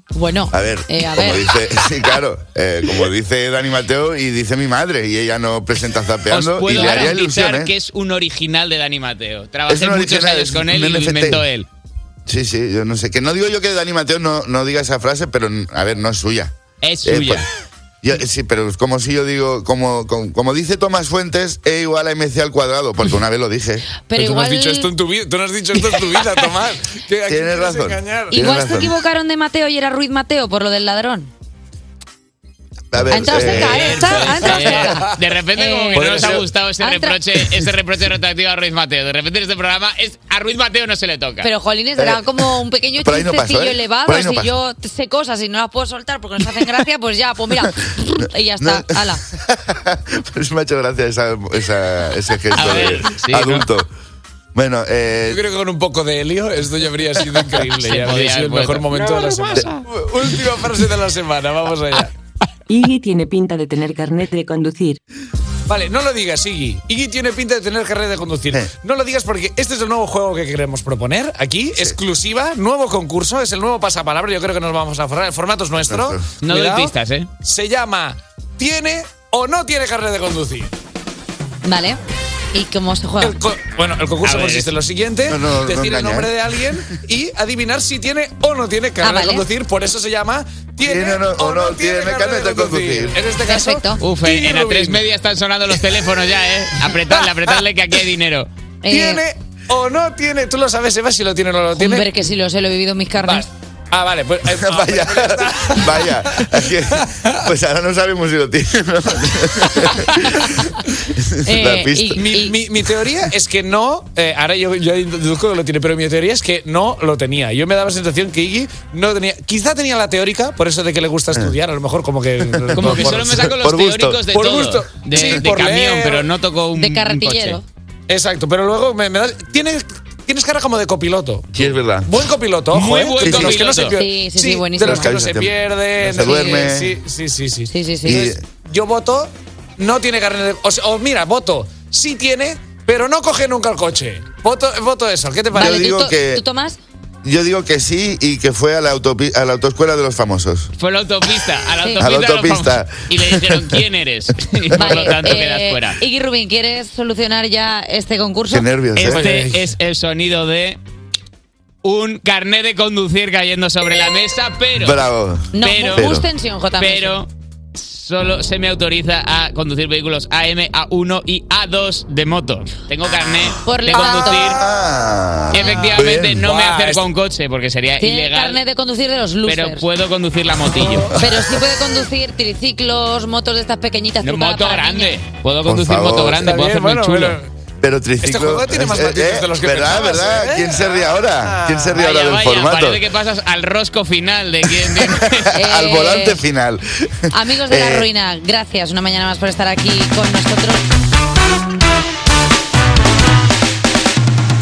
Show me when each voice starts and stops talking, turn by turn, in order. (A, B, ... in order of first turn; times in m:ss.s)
0:00.1-0:01.6 A
0:00.5-0:07.7 B
0:06.3-0:11.6 C
0:09.7-0:11.4 B
0:12.3-0:17.4 B
0:16.8-0:17.5 C
0:18.0-0:23.9 B
0:24.1-0:24.9 A
0:24.1-0:28.4 D
0:27.3-0:29.0 B
0:28.3-0:31.3 A
0:32.9-0:34.2 B
0:33.1-0:35.0 A
0:33.1-0:41.5 C
0:34.3-0:35.2 D
0:35.6-0:37.2 A
0:35.9-0:36.4 D
0:41.4-0:49.2 A
0:42.0-0:44.5 B
0:48.6-0:53.9 B
0:52.5-0:53.7 C
0:54.5-0:55.4 B
0:55.3-1:02.1 D
0:57.8-0:59.4 C
1:02.7-1:05.0 E
1:05.7-1:20.7 D
1:15.8-1:16.3 B
1:16.4-1:17.3 C
1:21.6-1:22.0 A
1:22.5-1:23.4 A
1:23.2-1:35.0 D
1:24.2-1:24.8 C
1:25.3-1:27.0 B
1:29.0-1:29.4 A
1:30.8-1:33.3 B
1:33.4-1:34.0 A
1:34.0-1:38.5 C
1:36.9-1:37.5 D
1:38.8-1:39.2 A
1:38.9-1:42.1 D
1:41.8-1:43.5 A
1:43.2-1:47.4 D
1:44.5-1:52.2 B
1:51.4-1:52.6 A
1:52.2-2:03.4 D
2:02.4-2:04.2 B
2:02.7-2:07.6 C
2:04.3-2:06.3 D
2:05.2-2:05.6 B
2:06.8-2:07.6 A
2:08.1-2:17.7 D
2:11.5-2:12.1 B
2:12.7-2:14.0 C
2:13.2-2:13.8 B
2:13.9-2:15.1 A
2:14.8-2:17.0 B
2:17.7-2:18.3 A
2:18.0-2:18.4 B
2:18.6-2:25.9 D
2:25.5-2:26.8 A
2:25.5-2:26.4 B
2:27.2-2:30.7 B
2:30.8-2:36.0 C
2:32.0-2:33.8 B
2:34.8-2:38.6 A
2:34.8-2:35.3 B
2:38.5-2:39.3 B
2:38.9-2:40.8 C
2:39.0-2:39.6 D
2:41.8-2:46.1 C
2:44.8-2:46.2 B
2:45.5-2:47.2 A
2:46.8-2:54.7 C
2:53.6-2:54.6 A
2:53.9-2:56.5 B
2:55.5-2:58.6 C
2:55.5-2:56.0 A
2:56.4-2:57.0 D
2:58.0-2:59.8 A
2:59.4-3:01.1 C
3:01.1-3:01.7 B
3:01.1-3:05.2 A
3:04.2-3:07.4 C
3:05.6-3:06.6 B
3:06.3-3:07.5 D
3:07.8-3:13.0 B
3:08.2-3:11.9 D
3:11.9-3:15.6 C
3:15.1-3:18.1 B
3:15.5-3:16.4 A
3:17.3-3:20.9 A